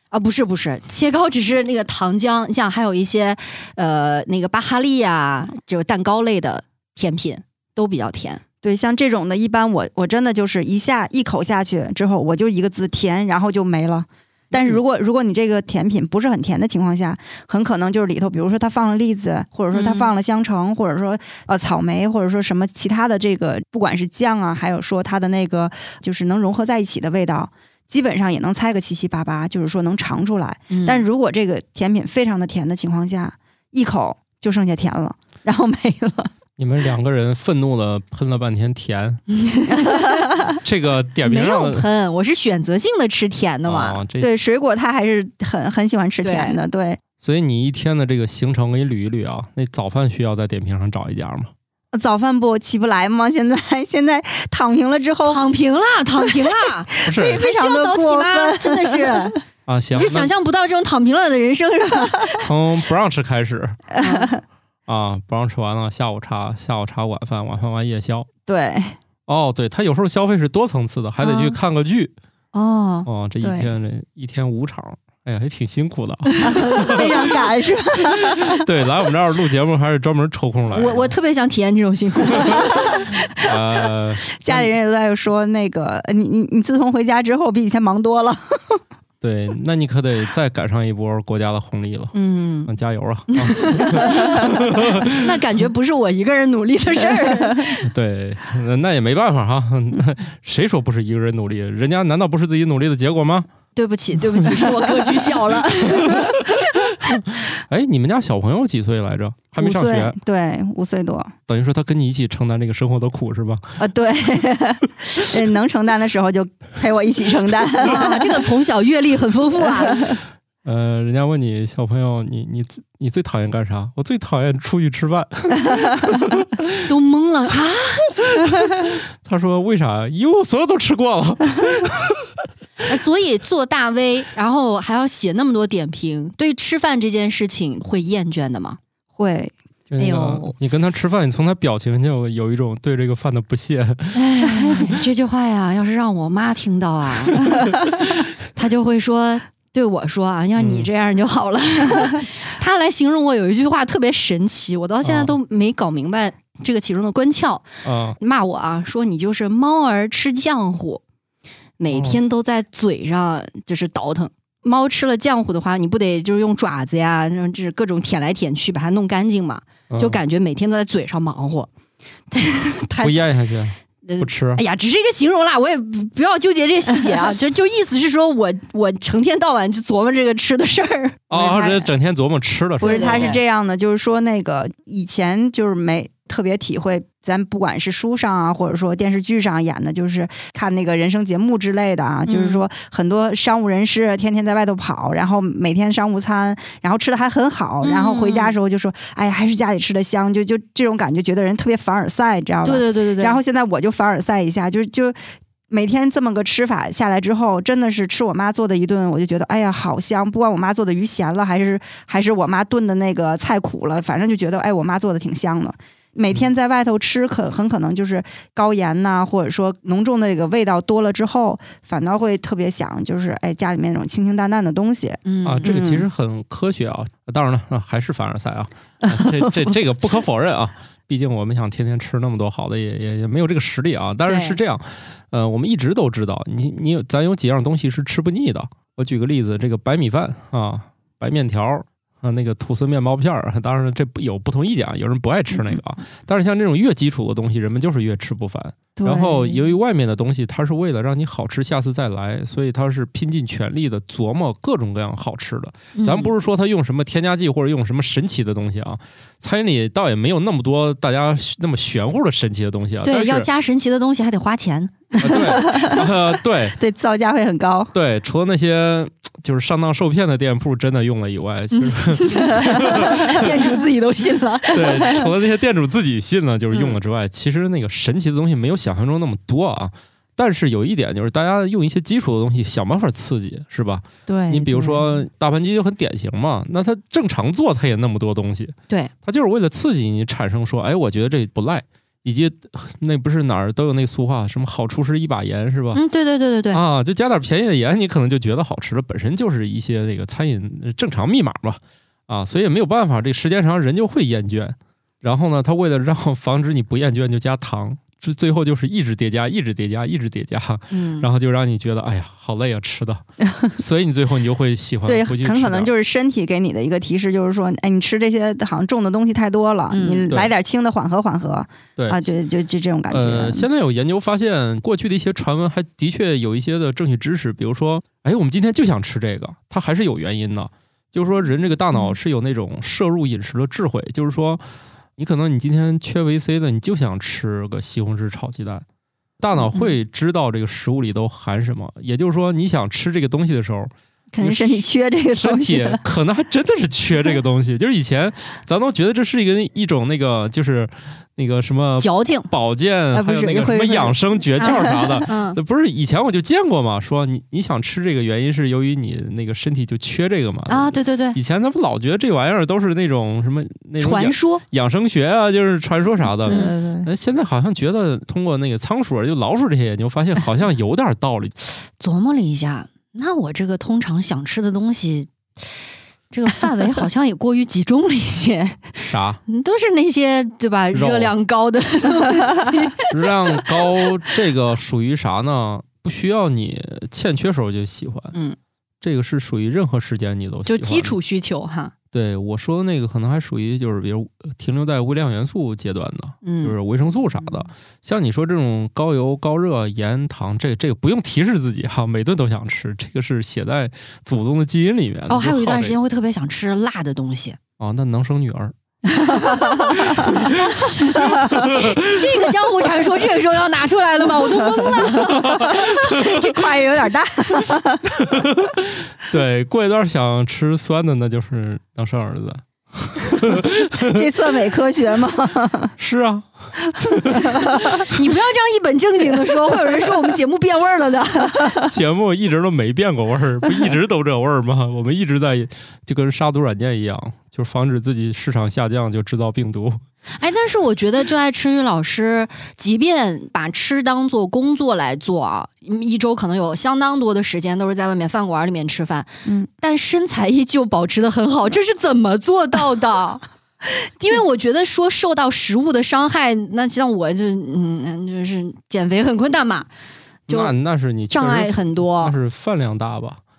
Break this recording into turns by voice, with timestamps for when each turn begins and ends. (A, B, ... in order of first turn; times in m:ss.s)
0:00.1-0:08.4 A
0:08.6-0:36.3 B
0:19.7-0:20.1 A
0:30.7-0:31.0 A
0:36.6-0:39.2 C
0:39.3-0:40.2 A
0:39.8-0:40.5 B
0:40.6-0:41.9 C
0:41.2-0:44.0 A
0:43.7-0:44.3 C
0:44.2-0:47.0 B
0:46.2-0:46.6 A
0:47.2-0:51.5 C
0:51.9-0:55.4 B
0:55.2-0:59.4 A
0:56.2-0:59.4 B
0:57.1-0:57.4 C
0:59.7-1:00.3 C
0:59.9-1:02.4 A
1:02.4-1:03.8 C
1:03.9-1:04.4 B
1:04.0-1:04.3 A
1:04.9-1:08.3 C
1:08.5-1:09.0 B
1:09.3-1:12.1 C
1:12.5-1:13.1 A
1:13.1-1:17.4 C
1:13.4-1:13.7 B
1:16.3-1:17.1 A
1:16.4-1:18.7 B
1:18.2-1:21.1 C
1:20.7-1:23.2 A
1:23.4-1:24.7 C
1:24.3-1:28.8 B
1:29.2-1:32.1 C
1:32.1-1:32.7 A
1:32.7-1:35.3 C
1:33.3-1:37.9 A
1:37.8-1:43.5 C
1:43.8-1:46.5 A
1:46.0-1:46.2 C
1:47.0-1:50.2 C
1:49.6-1:51.3 B
1:51.5-1:53.6 C
1:53.8-1:58.4 B
1:57.8-2:00.1 A
1:59.8-2:00.2 B
2:00.6-2:06.8 C
2:06.9-2:08.2 A
2:08.3-2:12.5 C
2:12.8-2:18.8 A
2:19.2-2:19.5 B
2:19.9-2:25.0 C
2:20.0-2:20.5 A
2:24.1-2:27.9 A
2:28.5-2:41.0 A
2:30.6-2:30.9 C
2:35.0-2:35.4 C
2:37.8-2:38.2 C
2:41.8-2:51.7 A
2:41.9-2:42.2 C
2:49.9-2:50.2 C
2:52.3-2:53.3 A
2:53.0-2:54.6 C
2:54.0-3:01.7 A
3:01.3-3:03.4 C
3:01.5-3:01.8 B
3:02.8-3:25.2 B
3:02.8-3:03.4 A
3:12.3-3:12.6 A
3:17.8-3:18.6 A
3:22.6-3:23.4 A
3:25.7-3:46.0 B
3:45.2-3:45.7 A
3:45.4-4:23.5 C
3:49.1-3:49.7 B
3:54.3-3:54.6 A
4:09.0-4:09.6 B
4:16.0-4:16.3 A
4:23.0-4:25.4 A
4:25.2-4:26.8 C
4:25.2-4:27.9 B
4:27.9-4:33.7 C
4:31.7-4:35.2 A
4:32.6-4:33.4 B
4:34.7-4:56.0 C
4:44.3-4:45.0 A
4:44.7-4:45.0 B
4:55.9-4:56.8 A
4:56.7-5:13.2 C
5:10.9-5:11.3 A
5:13.8-5:15.9 C
5:15.0-5:23.7 B
5:19.9-5:20.3 A
5:22.0-5:22.3 C
5:23.1-5:34.6 C
5:35.2-5:38.8 C
5:39.4-5:43.9 C
5:39.6-5:39.9 B
5:44.3-5:46.0 B
5:44.4-6:11.6 C
5:52.0-5:52.5 A
5:53.1-5:55.3 B
5:54.6-5:55.6 A
6:00.7-6:01.4 A
6:04.0-6:04.6 A
6:06.4-6:07.1 B
6:06.5-6:06.7 A
6:12.0-6:23.1 A
6:19.1-6:19.4 C
6:20.9-6:21.3 C
6:23.1-6:28.3 C
6:29.0-6:31.2 C
6:30.7-6:31.9 A
6:32.1-6:46.0 C
6:36.4-6:36.8 A
6:45.3-6:47.6 A
6:47.8-6:48.8 C
6:49.2-6:56.0 A
6:49.9-6:50.3 B
6:50.1-6:52.5 C
6:54.6-6:58.3 B
6:55.4-6:56.6 C
6:58.3-7:04.2 C
7:04.0-7:05.9 B
7:06.0-7:07.8 C
7:06.9-7:08.1 B
7:08.0-7:11.9 A
7:11.8-7:20.0 C
7:20.4-7:29.3 A
7:29.8-7:39.9 A
7:40.5-7:40.7 A
7:40.5-7:43.4 C
7:41.3-7:42.4 A